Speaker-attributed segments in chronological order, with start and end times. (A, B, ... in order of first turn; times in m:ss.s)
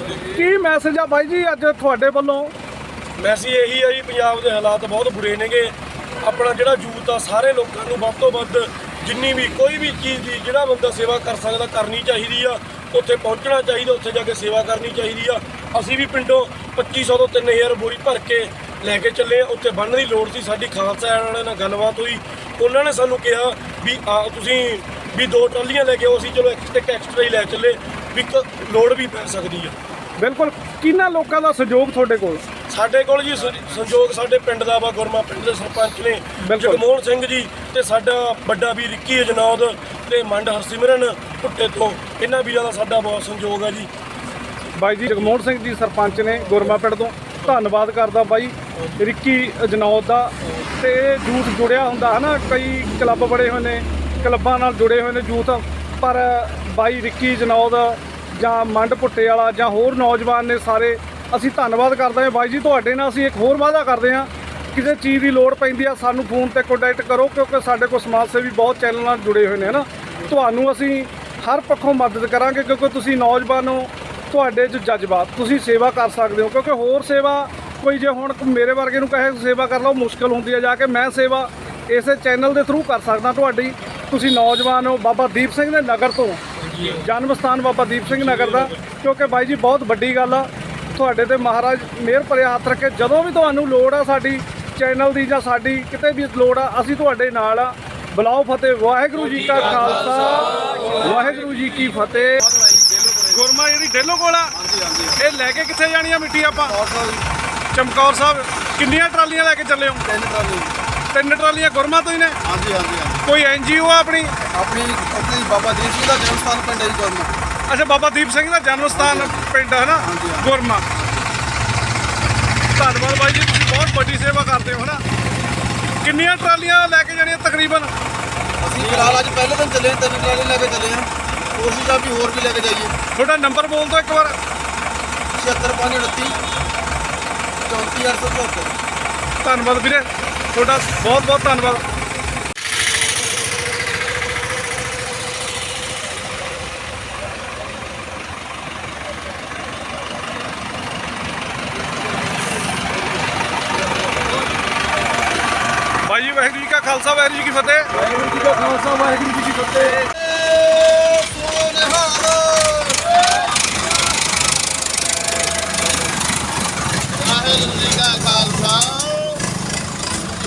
0:00.2-0:02.5 A
0:03.2-0:29.7 B
0:30.2-0:32.4 A
0:32.7-0:43.9 B
0:36.4-0:36.8 A
0:44.8-1:42.5 A
1:28.2-1:28.7 B
1:42.5-1:43.3 C
1:43.3-1:44.5 A
1:44.5-1:45.2 C
1:45.2-1:46.7 A
1:46.6-1:47.2 C
1:47.7-1:50.0 A
1:50.0-1:50.8 C
1:51.1-1:52.4 A
1:52.4-1:53.2 C
1:53.2-1:54.4 A
1:54.4-1:57.4 C
1:57.7-2:00.9 A
1:58.9-1:59.4 C
2:00.0-2:00.5 C
2:02.7-2:05.0 A
2:06.0-2:07.9 A
2:08.6-2:12.9 C
2:13.1-2:14.4 A
2:15.3-2:16.4 C
2:17.6-2:18.8 C
2:19.4-2:21.8 A
2:36.0-2:39.7 A
2:38.7-2:39.7 B
2:39.8-2:43.4 C
2:47.1-2:49.4 C